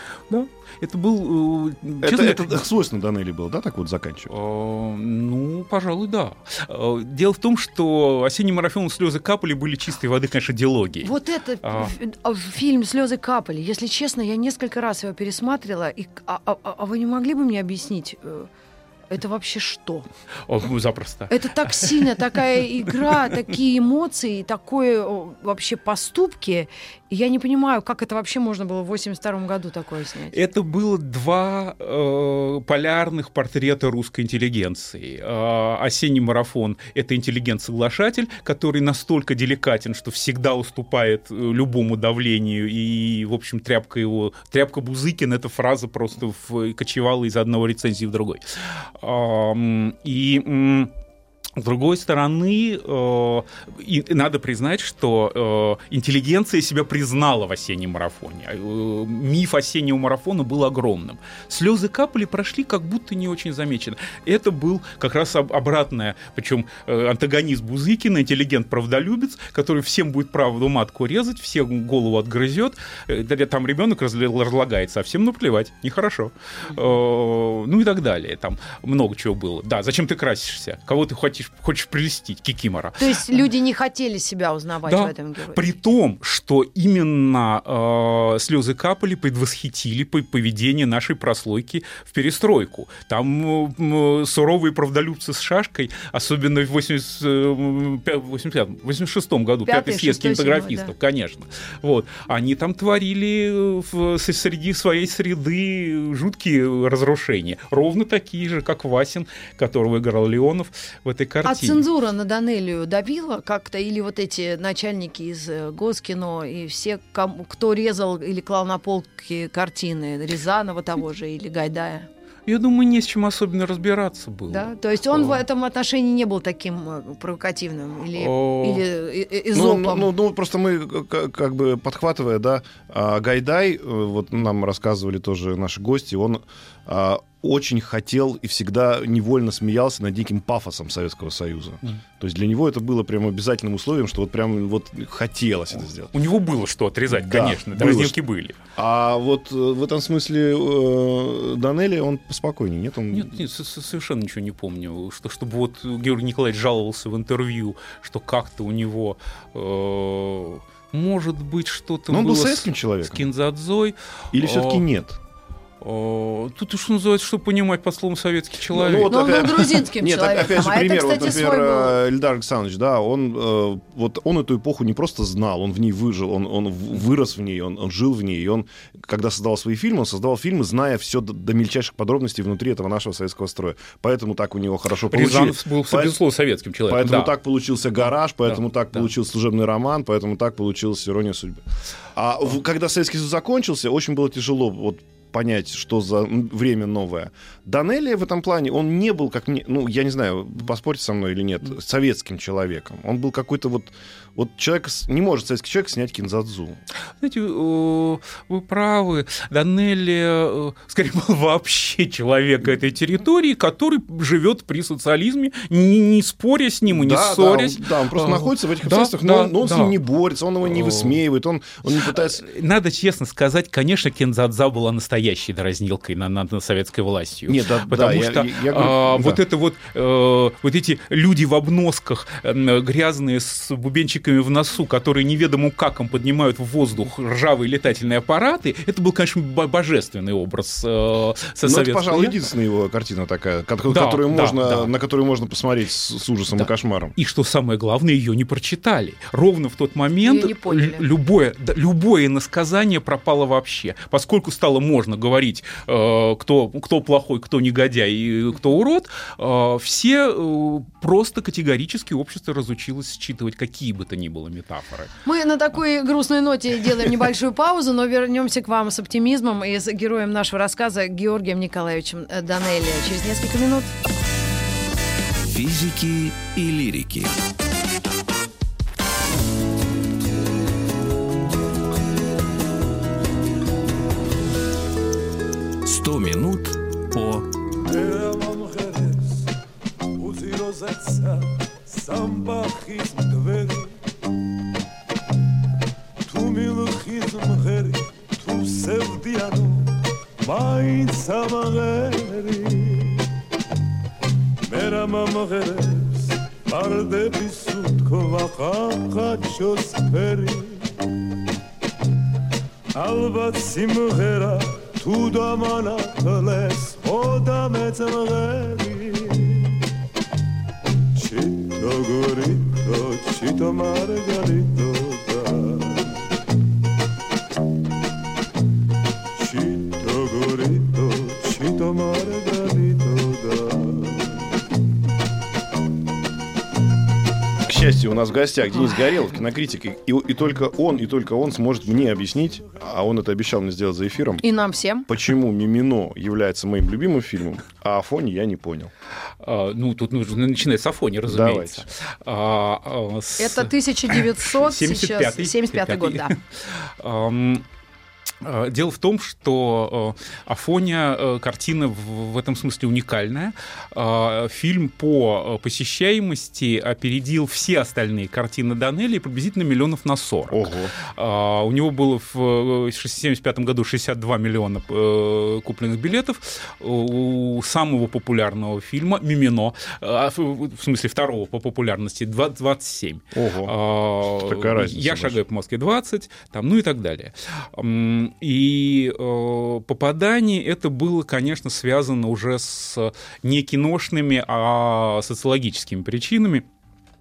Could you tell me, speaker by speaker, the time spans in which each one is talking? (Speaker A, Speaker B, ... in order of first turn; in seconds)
Speaker A: 0.3-2.6, 4.3-11.9, 20.5-21.9, 22.9-23.4, 30.3-50.9, 51.5-83.4, 84.9-111.8, 122.5-125.4, 128.2-128.8, 146.1-148.6, 153.1-164.8, 165.8-169.2, 185.1-187.3, 188.5-189.1, 207.2-220.0, 220.6-221.2, 222.1-242.4, 243.9-244.9, 246.6-265.1, 349.4-357.6, 358.4-396.6
Speaker B: 2.0-4.3, 129.5-146.1, 147.1-148.2, 148.8-153.4, 162.1-163.3, 164.3-165.2, 168.7-186.2, 186.9-206.8, 216.9-222.4, 227.5-229.4, 241.6-247.1, 337.6-344.4, 345.1-348.9, 351.2-351.9, 370.5-370.9, 383.3-385.4
Speaker C: 11.0-18.5, 19.1-20.1, 21.3-30.4, 83.0-85.7, 99.7-100.9, 111.4-122.1, 124.5-130.1, 169.1-171.9, 250.2-251.0, 265.2-273.9, 344.4-345.1, 353.4-356.4
Speaker D: 275.5-277.4, 285.8-287.5
Speaker E: 287.8-289.5, 290.2-293.9, 296.2-303.2, 304.7-310.9, 312.9-319.8, 321.1-326.2, 329.4-334.4